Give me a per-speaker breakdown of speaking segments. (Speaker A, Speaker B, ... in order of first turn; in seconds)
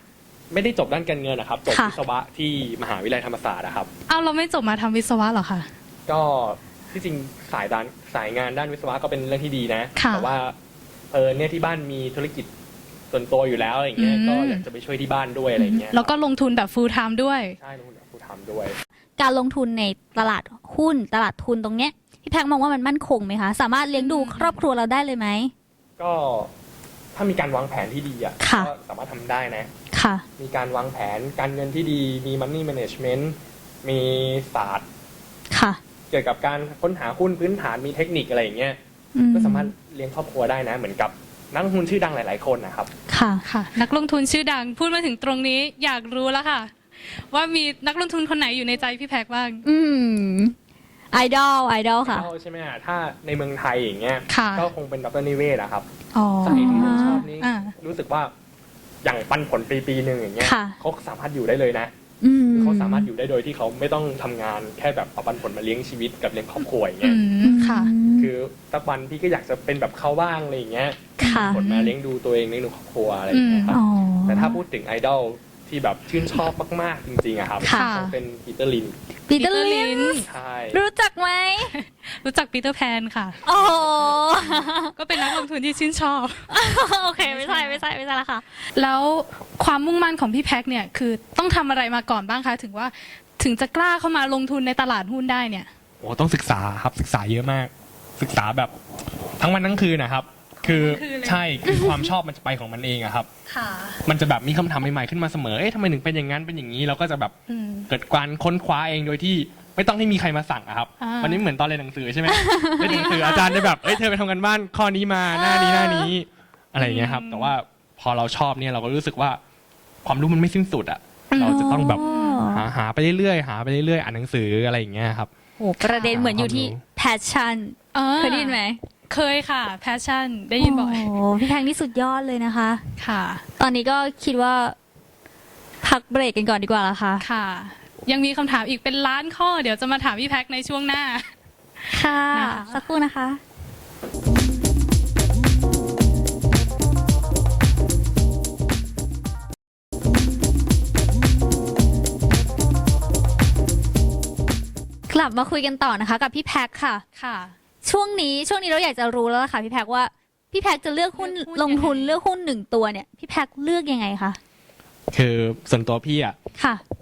Speaker A: 0.5-3.9, 6.1-10.6, 11.1-12.5, 13.1-16.1, 17.6-18.8, 26.0-26.5, 27.1-29.7, 30.4-34.9, 36.1-38.8, 39.3-42.9, 52.1-55.9, 56.4-58.3, 59.0-61.9, 62.5-67.2, 68.2-79.0, 80.3-80.8, 96.0-98.7, 99.4-103.3, 104.0-107.3, 107.9-119.4, 120.0-125.3, 126.1-126.8, 165.1-166.4
Speaker B: 1.7-1.9, 19.2-25.5, 28.4-28.7, 29.9-30.2, 35.5-35.8, 39.1-39.7, 43.1-43.4, 49.6-50.5, 51.1-52.3, 56.5-57.3, 60.4-60.8, 62.2-63.1, 67.4-68.3, 71.2-71.6, 73.7-74.6, 77.6-77.9, 79.3-81.7, 83.4-85.5, 86.5-88.7, 112.3-113.2, 115.3-116.1, 121.3-122.7, 125.6-128.8, 130.6-132.8, 133.6-134.8, 135.8-137.3, 141.9-143.4, 155.1-157.0, 157.8-164.4, 166.6-166.8
Speaker C: 4.1-5.7, 10.0-10.3, 14.0-14.6, 15.9-17.6, 23.9-24.6, 43.5-49.6, 54.3-54.7, 56.1-57.7, 67.0-67.9, 71.2-71.9, 73.3-73.8, 77.7-78.2, 79.4-80.3, 81.7-83.4, 84.9-86.5, 87.2-87.8, 88.8-95.7, 100.6-101.5, 103.5-104.0, 107.5-107.9, 111.0-111.4, 112.8-113.7, 116.8-117.5, 121.9-122.5, 125.8-126.2, 127.9-128.6, 129.1-131.1, 133.0-133.4, 137.2-141.3, 141.8-142.8, 157.2-157.6, 161.2-162.1